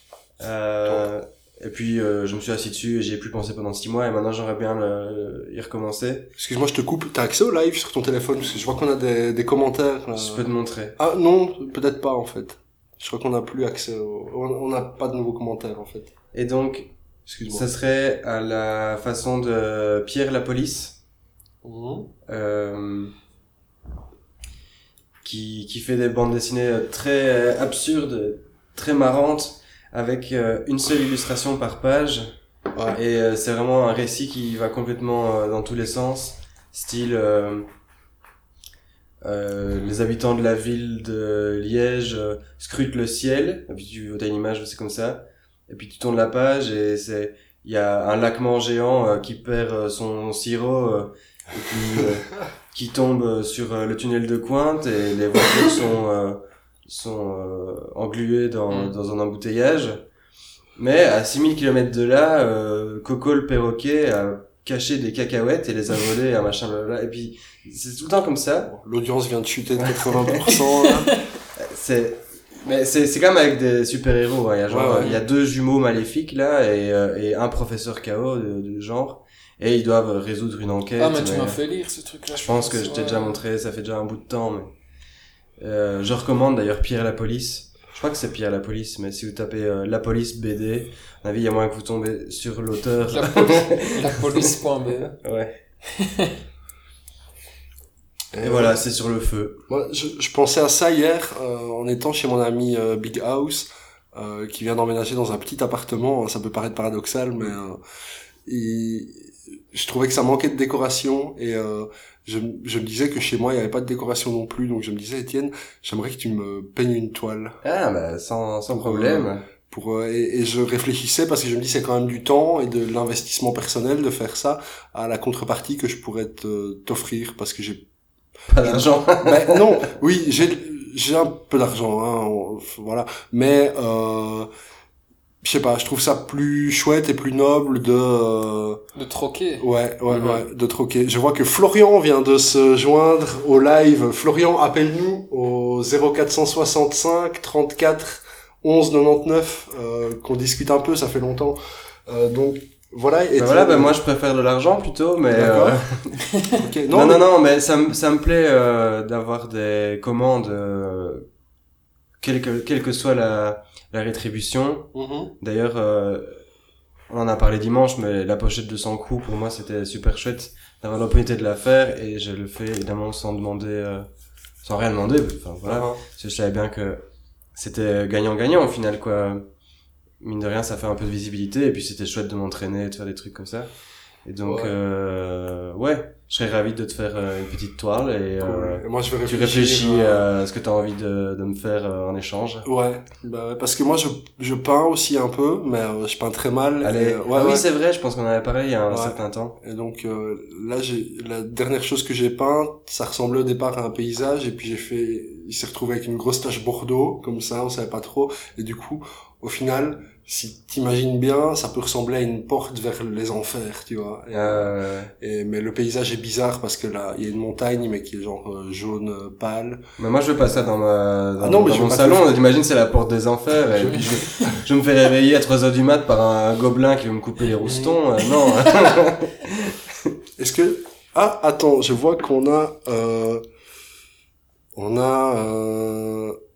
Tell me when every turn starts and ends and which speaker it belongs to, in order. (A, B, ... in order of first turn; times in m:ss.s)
0:00.4-0:06.3 A
0:06.4-0:10.5 B
0:10.2-0:11.0 A
0:11.0-0:16.1 B
0:16.3-0:16.9 A
0:17.3-0:17.7 B
0:17.5-0:21.0 A
0:21.6-0:22.1 B
0:22.3-0:23.1 A
0:25.2-0:32.3 A
0:32.8-0:33.0 B
0:32.9-0:37.7 A
0:39.2-1:00.0 A
0:58.7-0:59.0 C
1:00.8-1:08.7 A
1:08.7-1:11.1 B
1:09.9-1:10.6 A
1:11.6-1:21.6 A
1:14.7-1:15.2 B
1:21.0-1:23.4 C
1:22.3-1:24.7 A
1:25.6-1:34.5 A
1:33.1-1:35.2 C
1:35.2-1:35.6 A
1:36.0-1:36.4 C
1:38.3-1:38.8 B
1:38.4-1:39.6 A
1:39.7-1:47.8 B
1:48.5-1:57.6 B
1:57.6-1:59.4 A
1:58.7-2:07.8 B
2:08.5-2:09.7 A
2:08.6-2:14.5 B
2:15.4-2:18.8 B
2:19.0-2:19.7 C
2:19.6-2:33.9 B
2:20.1-2:20.4 A
2:33.4-2:36.2 A
2:35.3-2:35.8 B
2:36.6-2:37.2 B
2:36.9-2:41.2 A
2:42.2-2:46.4 A
2:44.9-2:45.3 B
2:47.1-2:54.1 A
2:54.6-2:57.0 A
2:55.6-2:56.0 B
2:57.6-2:59.5 A
3:00.2-3:03.7 A
3:04.2-3:12.7 A
3:04.4-3:04.7 B
3:08.4-3:10.3 B
3:12.6-3:17.6 B
3:16.8-3:19.6 A
3:18.9-3:39.8 B
3:34.3-3:35.1 A
3:40.0-3:50.1 A
3:41.4-3:42.3 B
3:43.7-3:44.6 B
3:47.6-3:48.0 B
3:50.4-3:53.4 B
3:54.8-3:56.4 B